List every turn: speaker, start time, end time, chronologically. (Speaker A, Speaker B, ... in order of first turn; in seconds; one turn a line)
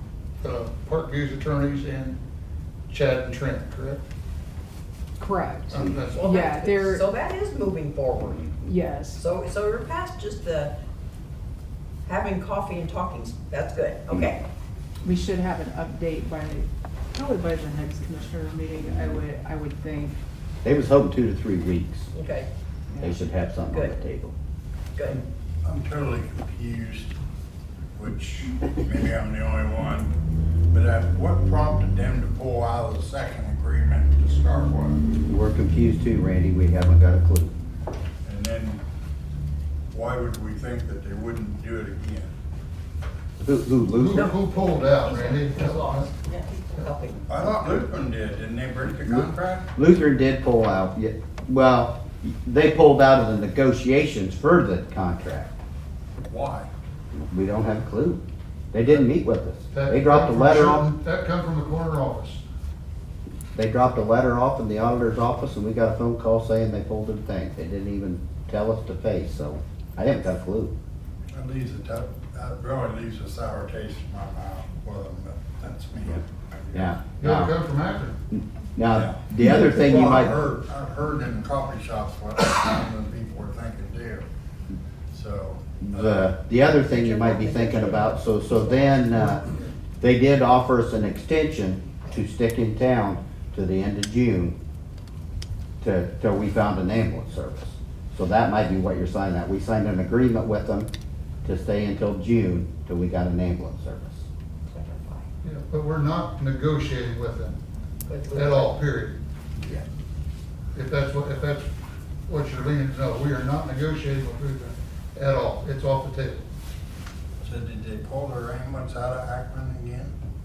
Speaker A: 0.4-2.2
Speaker A: 2.9-4.0
Speaker B: 5.2-7.1
Speaker A: 5.7-6.3
Speaker C: 6.1-8.5
Speaker B: 8.6-9.2
Speaker C: 9.2-10.8
Speaker C: 12.1-14.4
Speaker B: 15.1-20.2
Speaker D: 20.6-22.1
Speaker C: 22.1-22.5
Speaker B: 22.9-23.2
Speaker D: 23.0-24.3
Speaker C: 24.9-25.2
Speaker E: 25.6-27.1
Speaker E: 27.9-30.2
Speaker E: 30.7-35.0
Speaker D: 35.3-37.5
Speaker E: 38.2-38.8
Speaker E: 39.9-42.3
Speaker D: 43.4-44.3
Speaker A: 43.9-46.1
Speaker C: 44.1-47.2
Speaker E: 47.3-49.7
Speaker D: 49.1-55.5
Speaker E: 56.2-56.7
Speaker D: 57.3-58.2
Speaker D: 58.7-60.9
Speaker A: 59.7-62.4
Speaker D: 63.5-70.7
Speaker E: 71.3-77.1
Speaker D: 76.7-77.5
Speaker A: 77.2-78.2
Speaker D: 78.3-80.3
Speaker E: 78.9-84.2
Speaker E: 85.1-86.2
Speaker D: 85.8-89.4
Speaker C: 86.9-88.9
Speaker D: 90.0-94.6
Speaker D: 95.8-100.9
Speaker D: 101.4-104.3
Speaker C: 104.7-105.2
Speaker A: 105.4-107.6
Speaker C: 108.1-108.8
Speaker A: 108.3-109.2
Speaker A: 110.8-111.7
Speaker A: 112.3-116.5
Speaker E: 117.4-120.1